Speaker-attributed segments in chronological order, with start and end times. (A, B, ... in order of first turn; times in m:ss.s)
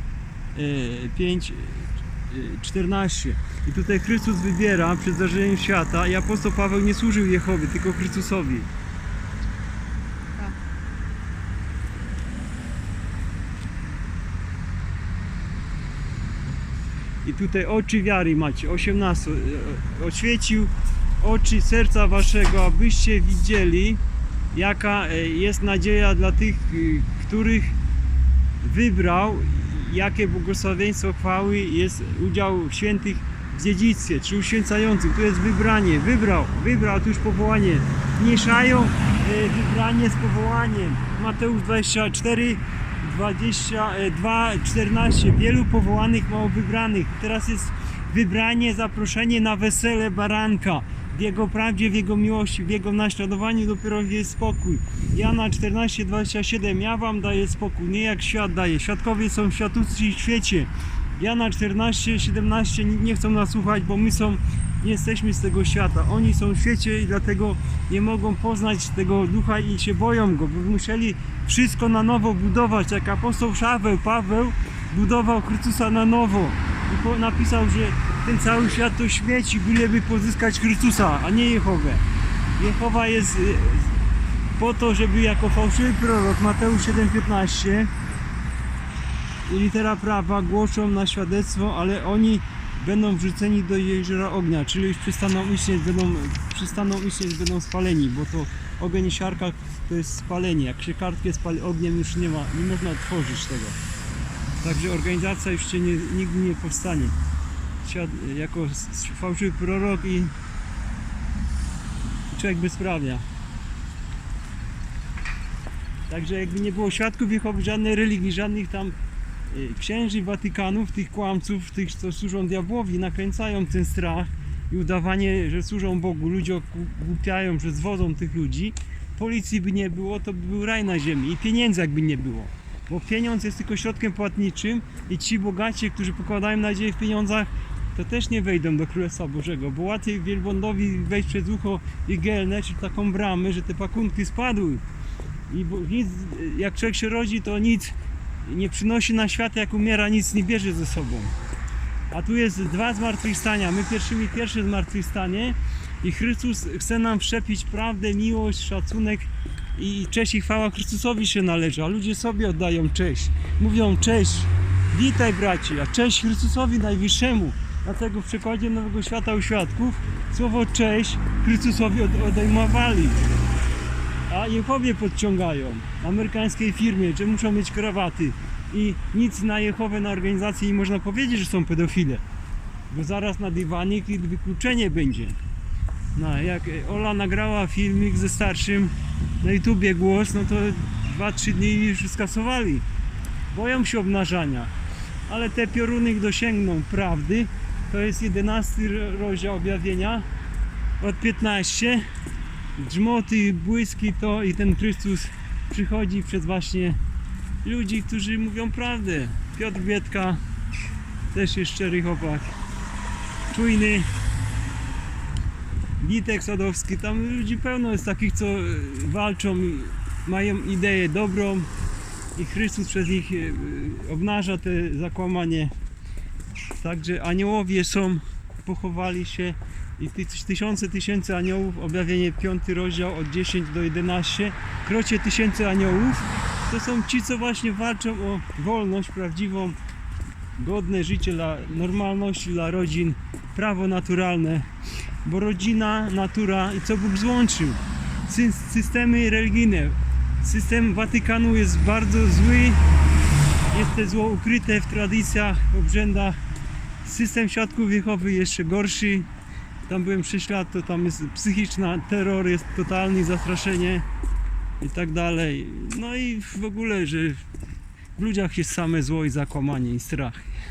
0:00.6-0:08.7 A
0:17.2-0:24.0 A
0:24.5-0:27.8 A
0:28.6-1:22.0 A
1:22.6-1:23.9 A
1:24.6-1:27.9 A
1:29.5-1:43.8 A
1:44.6-1:47.2 A
1:47.8-1:50.3 A
1:52.3-1:53.2 A
1:56.1-1:59.0 A
1:59.5-2:24.8 A
2:25.5-2:31.4 A
2:32.1-2:53.2 A
2:54.3-3:02.2 A
3:02.9-3:05.4 A
3:06.2-3:12.9 A
3:13.5-3:14.7 A
3:15.3-3:20.3 A
3:21.0-3:22.0 A
3:22.8-3:27.0 A
3:27.6-3:30.4 A
3:31.3-3:32.5 A
3:33.5-3:34.1 A
3:36.0-3:41.7 A
3:42.4-3:45.7 A
3:46.8-3:59.8 A
4:00.6-4:04.7 A
4:05.2-4:12.8 A
4:13.7-4:16.4 A
4:17.0-4:19.3 A
4:19.9-4:24.1 A
4:24.8-4:27.4 A
4:28.2-4:30.4 A